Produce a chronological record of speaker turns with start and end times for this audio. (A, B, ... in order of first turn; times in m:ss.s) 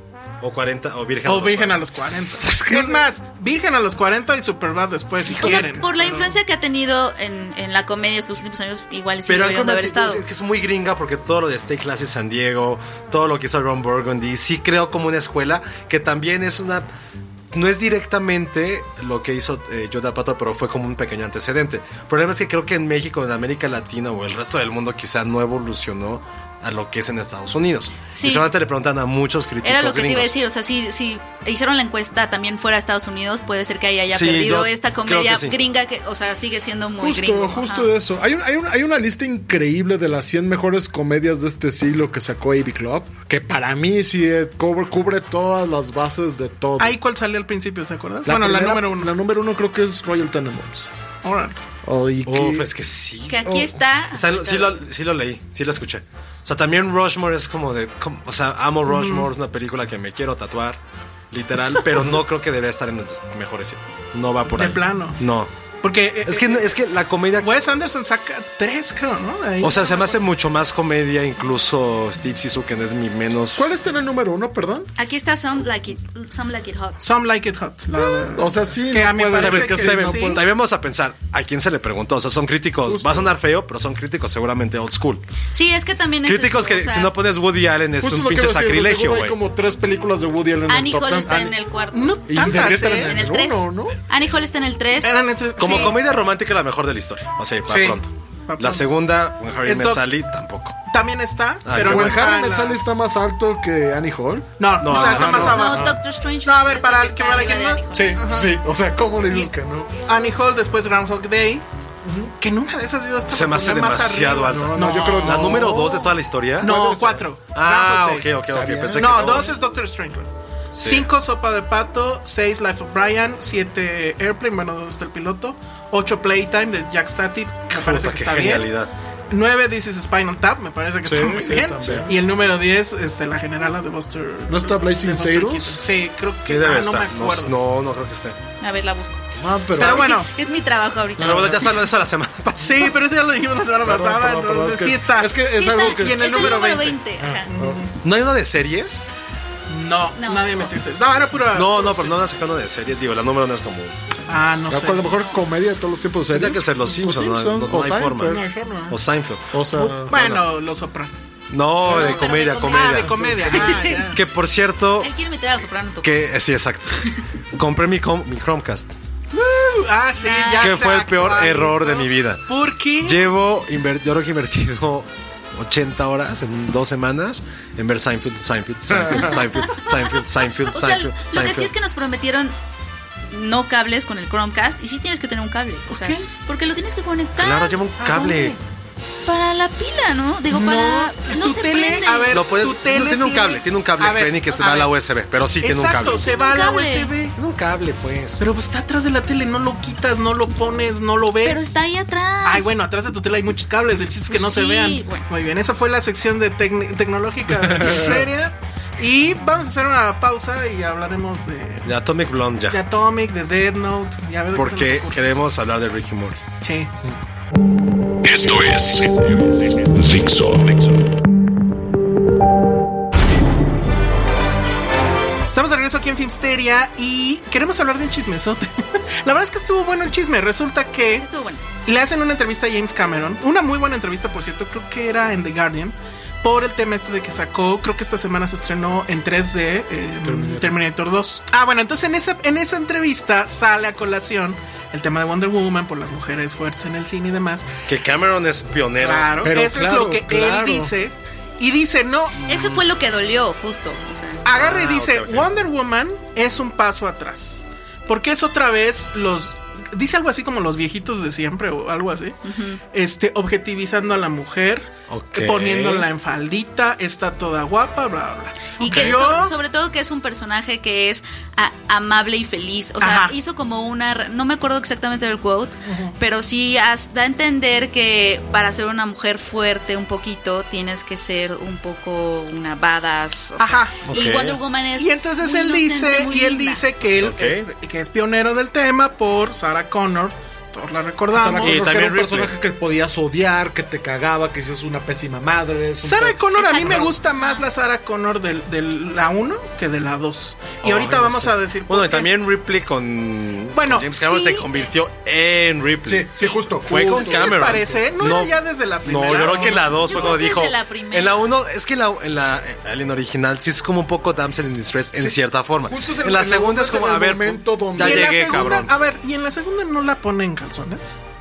0:00.4-0:01.8 A
0:01.2-0:06.3 B
0:02.4-0:03.0 C
0:05.2-0:05.8 A
0:05.4-0:10.2 D
0:09.3-0:16.9 A
0:17.5-0:30.3 A
0:28.1-0:28.5 D
0:29.6-0:37.9 D
0:34.1-0:35.6 A
0:37.0-0:47.0 C
0:46.8-0:49.1 B
0:48.2-0:50.9 C
0:51.2-0:51.6 B
0:51.8-0:52.6 C
0:52.2-1:00.8 A
0:53.3-0:54.8 D
0:53.4-0:53.8 C
0:58.8-0:59.3 B
1:01.3-1:05.5 A
1:04.5-1:05.2 B
1:05.8-1:06.7 B
1:06.2-1:07.5 A
1:07.4-1:10.2 B
1:09.6-1:13.6 A
1:13.6-1:14.9 C
1:15.0-1:17.0 D
1:17.0-1:20.4 B
1:18.3-1:20.4 C
1:19.3-1:25.2 A
1:22.8-1:23.3 C
1:25.5-1:27.1 D
1:26.2-1:29.3 A
1:28.0-1:31.5 C
1:30.7-1:35.8 D
1:31.9-1:33.2 B
1:32.2-1:33.9 C
1:35.0-1:36.0 B
1:35.6-1:40.8 A
1:37.6-1:38.9 B
1:39.6-1:40.0 B
1:40.9-1:43.0 B
1:41.6-1:42.3 A
1:41.8-1:46.0 C
1:44.6-1:45.9 B
1:44.8-1:45.9 A
1:45.0-1:48.2 D
1:46.4-1:48.6 B
1:47.9-1:49.9 C
1:50.1-1:51.6 B
1:52.0-1:52.3 C
1:52.4-1:55.7 B
1:53.3-1:56.7 A
1:54.4-1:57.3 C
1:56.6-1:58.3 B
1:57.5-1:59.6 A
1:58.5-1:59.4 C
1:59.0-2:08.7 B
2:00.7-2:01.1 A
2:07.7-2:08.9 A
2:09.3-2:17.5 B
2:11.0-2:12.1 C
2:14.5-2:15.8 C
2:16.4-2:18.4 A
2:18.6-2:19.2 D
2:19.4-2:20.1 C
2:19.7-2:20.3 B
2:19.8-2:21.6 D
2:21.2-2:21.6 C
2:21.2-2:23.0 A
2:22.6-2:27.9 B
2:23.8-2:26.6 C
2:25.5-2:27.5 D
2:27.2-2:27.8 C
2:28.0-2:29.0 A
2:29.7-2:32.2 B
2:30.2-2:30.7 D
2:31.5-2:33.9 A
2:34.3-2:35.1 B
2:34.7-2:38.4 C
2:36.3-2:39.6 A
2:38.2-2:39.0 B
2:39.5-2:40.2 C
2:39.8-2:41.1 B
2:40.1-2:40.4 A
2:41.5-2:45.1 A
2:41.9-2:44.2 B
2:41.9-2:44.0 D
2:43.0-2:43.7 C
2:45.0-2:46.1 D
2:46.0-2:48.9 A
2:49.3-2:53.3 B
2:50.2-2:50.8 D
2:50.6-2:52.5 A
2:53.0-3:01.7 A
2:58.9-2:59.3 C
2:59.1-3:00.0 D
3:00.7-3:02.6 D
3:03.3-3:07.8 D
3:05.9-3:06.3 B
3:07.4-3:08.6 A
3:08.0-3:08.6 B
3:09.2-3:12.4 D
3:10.5-3:14.9 B
3:12.3-3:16.2 A
3:15.6-3:17.3 B
3:16.0-3:17.1 D
3:17.3-3:18.4 A
3:18.4-3:21.8 B
3:21.4-3:22.7 D
3:22.4-3:31.9 B
3:24.3-3:25.3 D
3:27.7-3:28.2 C
3:31.8-3:32.8 A
3:32.7-3:35.2 B
3:34.5-3:36.4 A
3:36.6-3:36.9 B
3:38.2-3:41.0 E
3:45.5-3:51.3 B
3:51.2-3:51.7 D
3:51.8-4:07.7 B
4:00.2-4:00.8 C
4:07.9-4:09.5 A
4:09.0-4:12.5 B
4:09.4-4:10.9 C
4:12.5-4:14.4 D
4:14.4-4:22.4 B
4:14.5-4:15.6 A
4:22.4-4:22.8 D
4:22.9-4:29.6 B
4:25.1-4:26.1 A
4:28.8-4:46.8 D
4:28.9-4:29.1 A
4:33.0-4:33.3 B
4:35.8-4:36.1 B
4:43.6-4:44.1 B
4:44.0-4:44.6 A
4:45.0-4:51.9 B
4:47.0-4:47.7 A
4:51.3-4:57.1 C
4:51.6-4:52.5 A
4:56.0-5:02.3 B
4:56.5-4:57.6 D
5:00.8-5:06.3 A
5:03.7-5:04.6 B
5:06.0-5:08.0 C
5:06.8-5:18.9 A
5:07.0-5:10.3 B
5:10.0-5:11.4 D
5:15.9-5:18.8 C
5:18.0-5:21.2 B